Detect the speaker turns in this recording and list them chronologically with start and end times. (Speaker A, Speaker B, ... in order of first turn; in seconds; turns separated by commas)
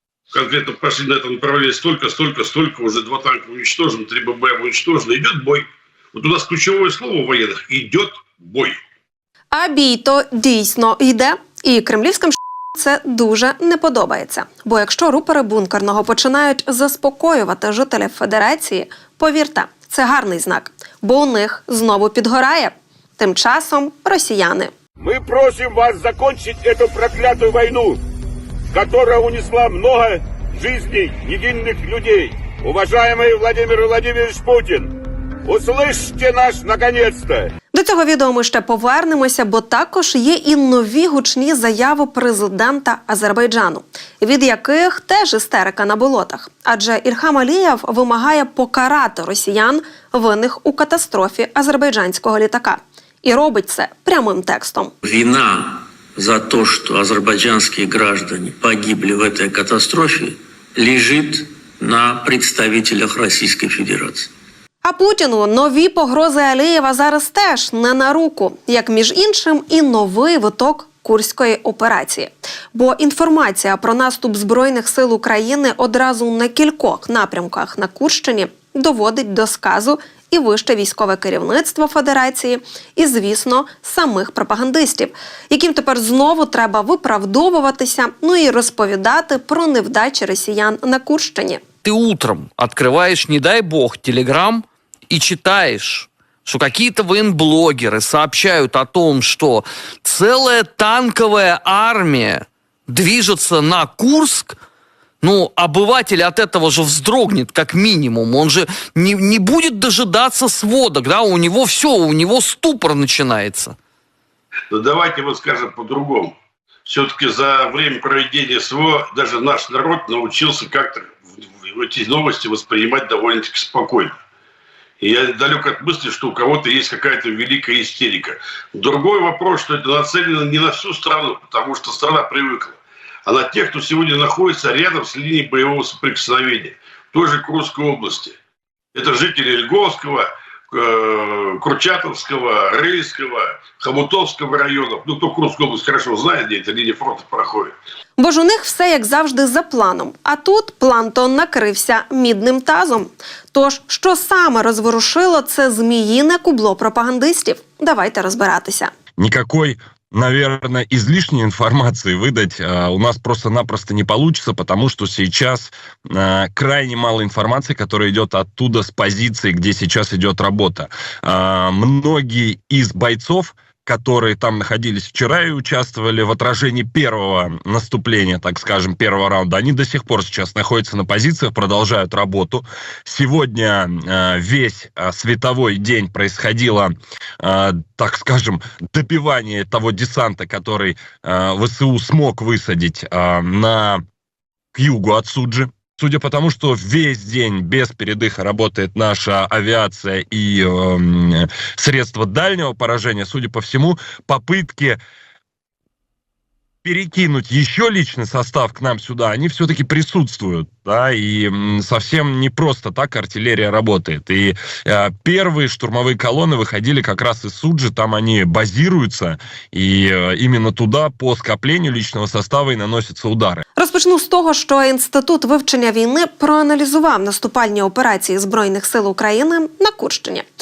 Speaker A: 0.3-8.8, Speaker B: 9.5-24.7, Speaker C: 25.0-28.0, Speaker C: 28.7-34.9, Speaker C: 35.5-37.5, Speaker B: 37.7-54.9, Speaker D: 55.0-64.3, Speaker B: 64.8-91.6, Speaker E: 91.8-104.6, Speaker E: 105.2-113.8, Speaker A: 114.7-116.3, Speaker A: 116.8-124.2, Speaker A: 125.0-138.3, Speaker A: 138.9-147.7, Speaker B: 148.2-158.9, Speaker F: 159.2-194.0, Speaker F: 194.7-205.0, Speaker F: 206.8-223.6, Speaker B: 223.8-230.4